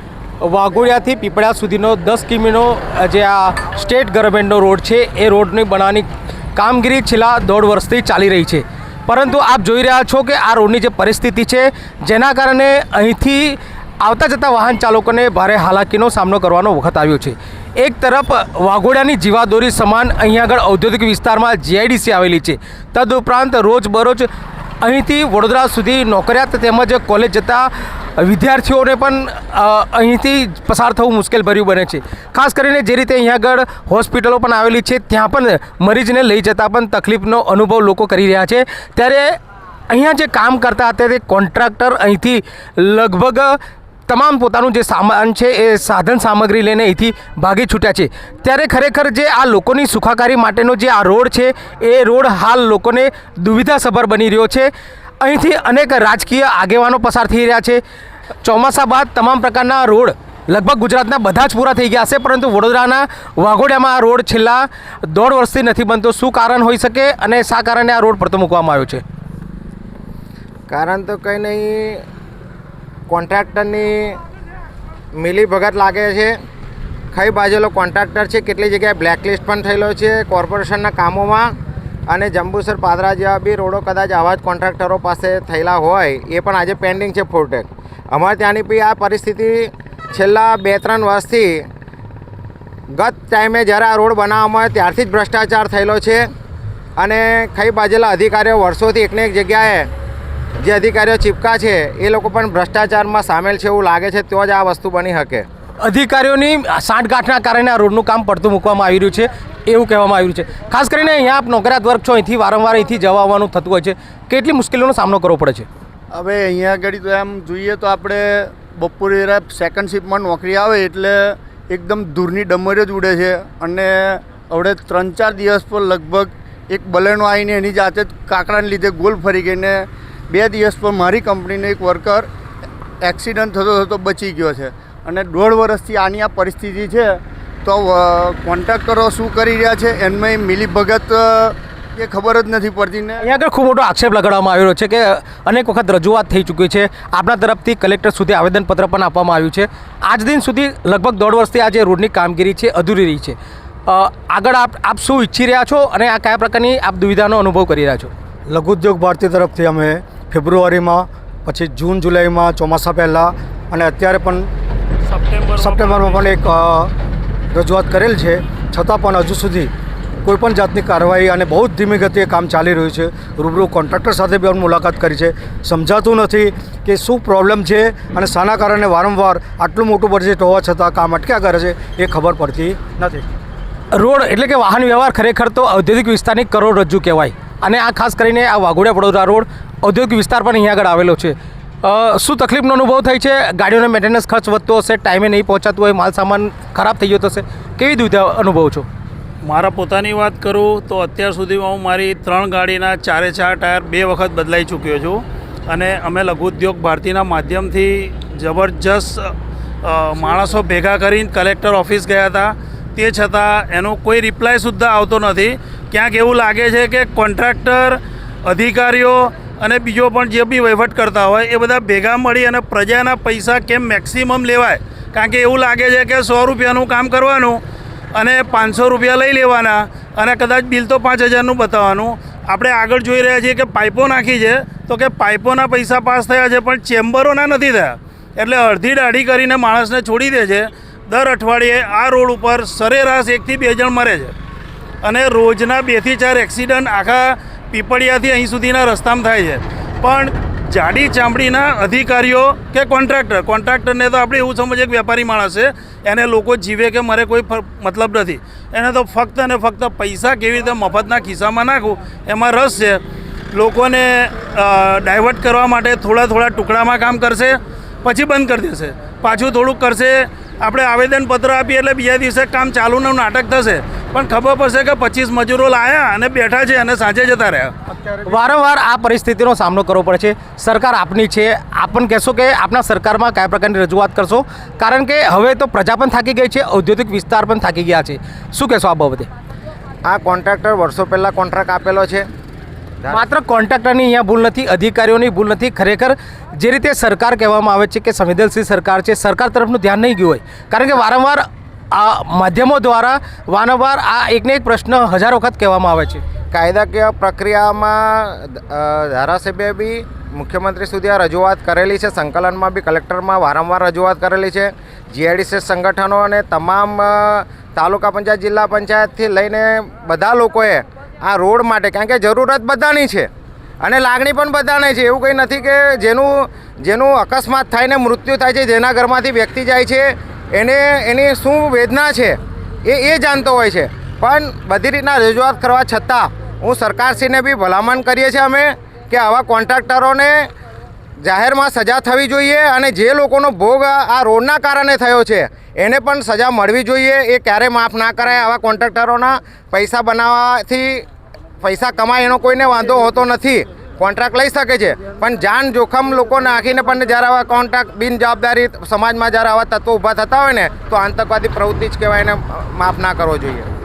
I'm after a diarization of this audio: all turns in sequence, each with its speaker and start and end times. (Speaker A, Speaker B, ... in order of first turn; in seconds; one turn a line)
Speaker A: 0.4-24.3
Speaker A: 24.8-39.3
Speaker A: 39.9-54.7
Speaker A: 55.2-57.8
Speaker A: 58.4-69.0
Speaker B: 70.7-72.0
Speaker B: 73.1-74.2
Speaker B: 75.2-76.3
Speaker B: 77.1-81.5
Speaker B: 82.1-91.6
Speaker B: 92.9-96.2
Speaker B: 97.0-99.9
Speaker B: 100.6-105.5
Speaker A: 105.8-115.7
Speaker C: 116.1-132.3
Speaker C: 133.0-143.2
Speaker A: 143.2-153.3
Speaker A: 153.9-158.1
Speaker D: 158.5-164.5
Speaker E: 165.1-166.3
Speaker D: 165.6-166.9
Speaker D: 167.5-169.7
Speaker D: 170.2-183.2
Speaker A: 183.9-198.8
Speaker E: 199.4-209.3
Speaker E: 209.8-227.6
Speaker E: 228.2-244.3
Speaker E: 245.0-263.0
Speaker E: 263.5-277.7
Speaker A: 278.2-289.3
Speaker B: 290.0-292.2
Speaker A: 293.1-306.2
Speaker B: 306.5-323.3
Speaker B: 323.8-340.5
Speaker B: 341.2-351.1
Speaker B: 351.6-363.7